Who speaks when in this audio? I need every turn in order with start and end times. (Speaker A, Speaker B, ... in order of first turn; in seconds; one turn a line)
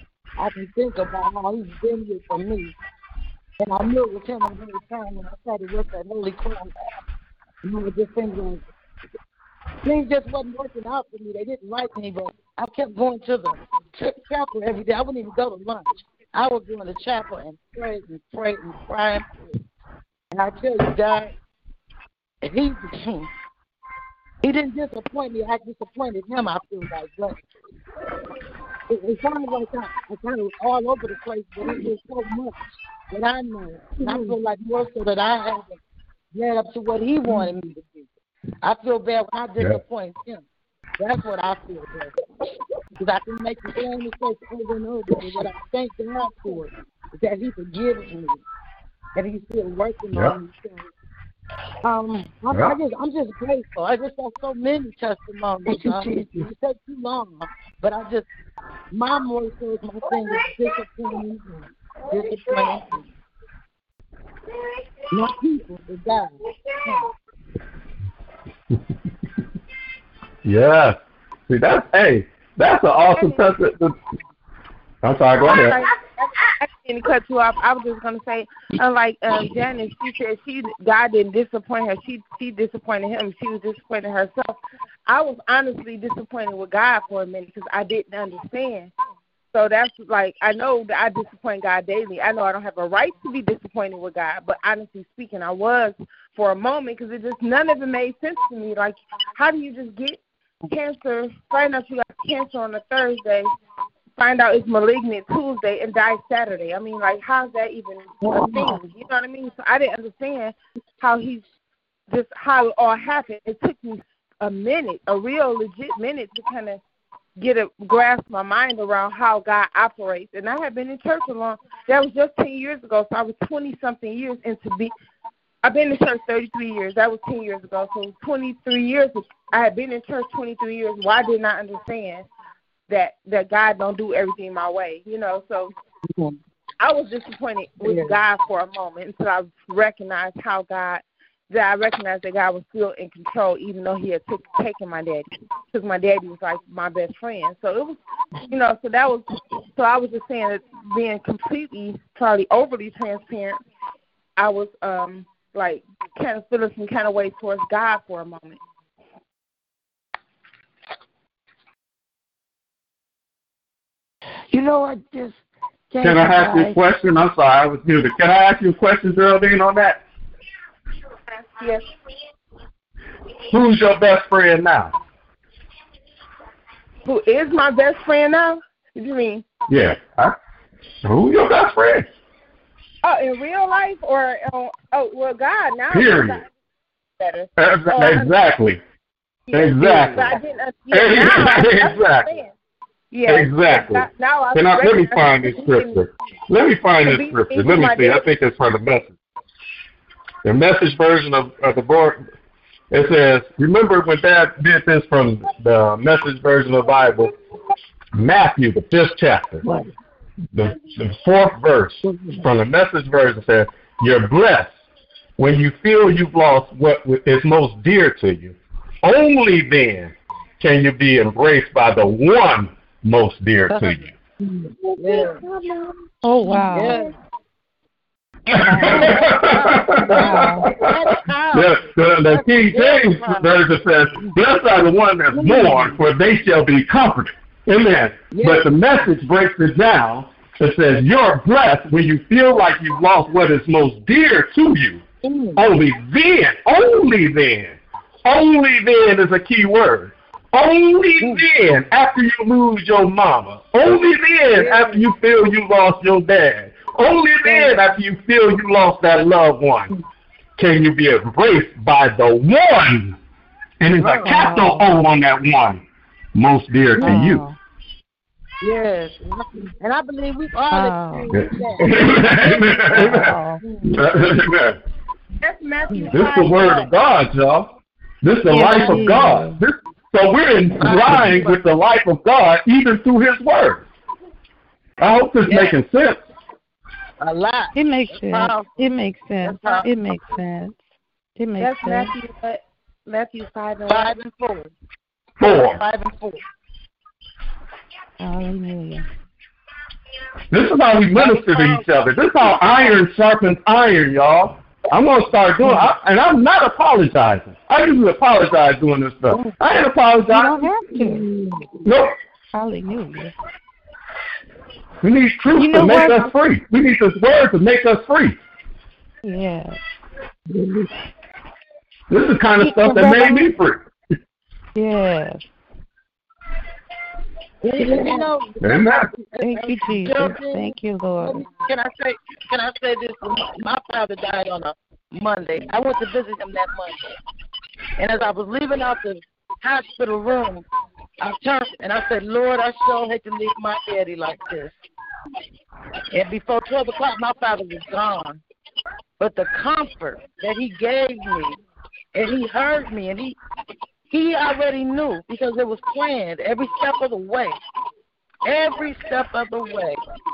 Speaker A: 0.4-2.7
Speaker A: 3.6-7.0
Speaker A: 7.6-8.6
Speaker A: 9.8-19.5
Speaker A: 20.3-21.3
Speaker A: 22.4-23.3
Speaker A: 24.4-27.4
Speaker A: 28.9-32.5
Speaker A: 33.1-35.8
Speaker A: 36.3-38.1
Speaker A: 38.6-40.5
Speaker A: 41.0-42.1
Speaker A: 43.0-48.4
Speaker A: 49.1-50.9
Speaker A: 51.8-58.3
Speaker B: 52.5-52.8
Speaker C: 55.6-56.5
Speaker A: 58.9-63.0
Speaker C: 60.2-60.5
Speaker C: 62.1-62.8
Speaker A: 65.1-66.3
Speaker B: 70.4-73.9
Speaker D: 73.1-73.4
Speaker B: 75.0-75.8
Speaker D: 75.4-88.9
Speaker D: 89.5-103.5
Speaker D: 104.2-111.4
Speaker C: 108.3-108.7
Speaker D: 112.1-116.8
Speaker D: 117.4-124.9
Speaker D: 125.6-132.2
Speaker D: 132.9-135.7
Speaker D: 136.8-153.6
Speaker A: 137.8-138.2
Speaker D: 154.4-158.6
Speaker C: 164.5-166.8
Speaker B: 166.0-170.0
Speaker D: 171.4-171.8
Speaker B: 173.5-174.9
Speaker D: 177.0-179.5
Speaker B: 179.7-180.3
Speaker B: 181.0-182.1
Speaker D: 183.0-186.4
Speaker B: 185.9-186.4
Speaker D: 187.2-188.3
Speaker B: 187.6-188.8
Speaker D: 189.5-192.5
Speaker B: 189.5-190.4
Speaker B: 190.9-192.3
Speaker D: 193.1-196.1
Speaker B: 193.3-199.2
Speaker D: 197.0-198.2
Speaker B: 200.4-202.2
Speaker B: 202.9-207.3
Speaker B: 208.1-209.6
Speaker C: 209.6-209.9
Speaker B: 210.5-214.8
Speaker A: 212.1-212.4
Speaker B: 215.4-224.1
Speaker A: 223.7-225.4
Speaker E: 226.2-227.1
Speaker A: 226.5-227.1
Speaker B: 228.5-245.0
Speaker E: 228.6-229.4
Speaker A: 228.7-234.3
Speaker E: 230.1-230.7
Speaker A: 235.3-236.0
Speaker A: 238.3-238.7
Speaker A: 245.2-245.6
Speaker B: 245.6-259.9
Speaker A: 254.5-255.1
Speaker A: 257.4-257.9
Speaker B: 260.6-263.1
Speaker B: 263.8-265.8
Speaker A: 264.0-264.4
Speaker E: 264.1-264.9
Speaker B: 266.3-267.4
Speaker A: 266.9-267.4
Speaker E: 267.0-267.6
Speaker A: 268.6-274.1
Speaker E: 270.7-271.4
Speaker B: 271.3-274.8
Speaker E: 272.8-273.6
Speaker D: 275.4-276.9
Speaker B: 276.1-283.9
Speaker E: 278.5-279.6
Speaker A: 280.8-281.6
Speaker B: 285.0-286.2
Speaker A: 285.5-285.7
Speaker A: 287.2-288.9
Speaker E: 287.7-290.8
Speaker A: 289.4-290.1
Speaker E: 291.4-292.1
Speaker D: 291.6-294.1
Speaker A: 293.9-294.7
Speaker B: 295.4-295.8
Speaker A: 295.4-296.4
Speaker E: 298.2-299.0
Speaker B: 300.5-310.7
Speaker A: 301.1-303.0
Speaker E: 305.6-305.9
Speaker A: 309.3-309.6
Speaker E: 310.3-311.2
Speaker A: 310.9-311.8
Speaker B: 311.8-312.1
Speaker E: 312.5-313.3
Speaker B: 315.0-318.4
Speaker E: 315.5-316.3
Speaker E: 319.2-319.8
Speaker B: 322.1-323.9
Speaker E: 322.6-323.5
Speaker E: 324.7-325.4
Speaker A: 327.6-337.1
Speaker C: 327.8-328.3
Speaker B: 328.6-329.1
Speaker E: 329.4-331.4
Speaker A: 338.0-340.7
Speaker A: 341.2-344.8
Speaker A: 346.1-348.4
Speaker A: 349.2-351.6
Speaker A: 352.1-353.4
Speaker A: 354.1-357.6
Speaker A: 358.4-360.0